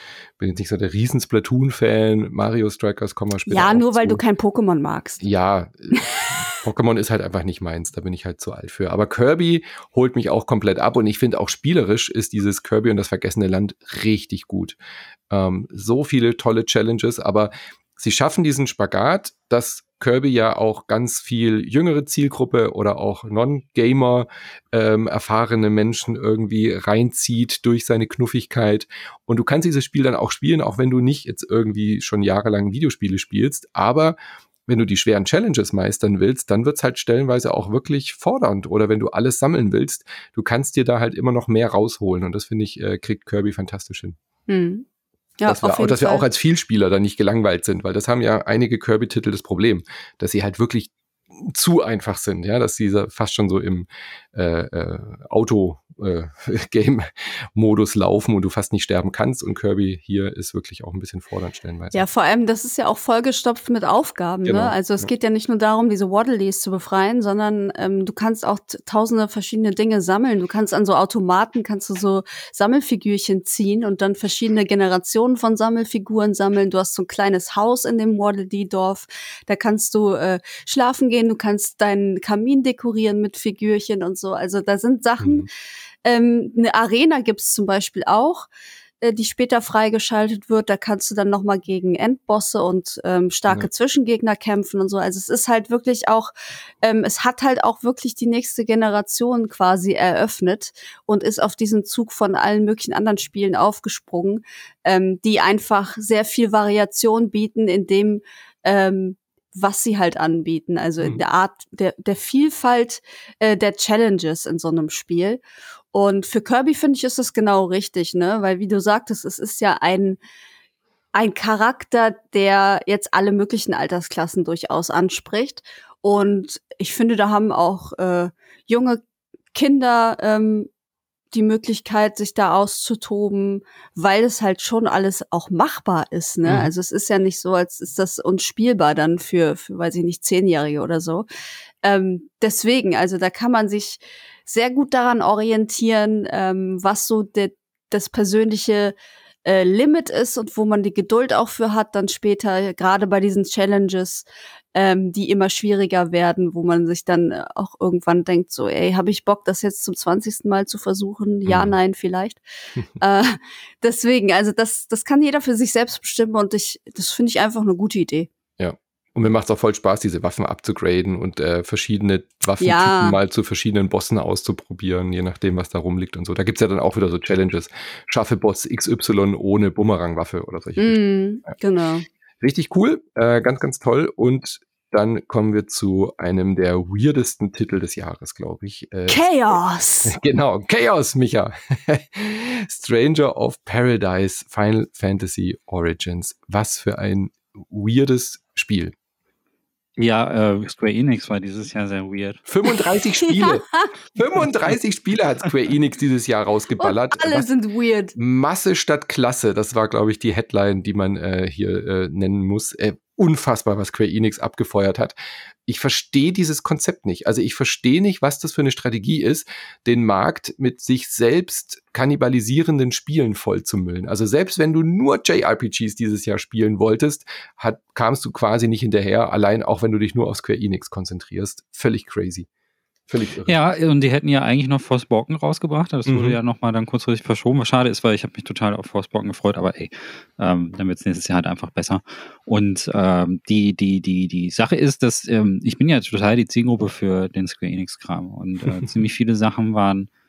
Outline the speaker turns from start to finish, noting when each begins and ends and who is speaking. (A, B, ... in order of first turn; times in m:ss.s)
0:00.4-0:04.2 A
0:03.5-0:05.2 B
0:05.2-0:14.8 A
0:15.3-0:44.2 A
0:44.5-0:44.8 B
0:45.4-0:46.3 B
0:45.5-1:02.1 A
1:01.9-1:25.4 B
1:04.4-1:05.1 A
1:25.2-1:25.5 A
1:26.0-1:28.5 B
1:29.0-1:36.3 B
1:36.8-1:55.4 B
1:55.9-2:00.2 B
2:01.1-2:09.0 B
2:09.5-2:10.7 B
2:11.3-2:21.3 B
2:16.4-2:16.7 A
2:21.8-2:42.4 B
2:41.5-2:41.8 A
2:43.0-2:48.3 B
2:48.6-3:01.0 A
2:52.6-2:53.2 B
3:00.8-3:02.0 B
3:02.4-3:09.2 A
3:09.1-3:10.2 B
3:10.1-3:18.9 A
3:20.0-3:22.4 C
3:22.4-3:27.5 A
3:23.3-3:23.9 B
3:26.8-3:28.2 B
3:28.2-3:35.1 A
3:35.6-3:52.5 A
3:53.1-3:53.6 A
3:53.4-4:10.1 C
3:56.1-3:56.4 A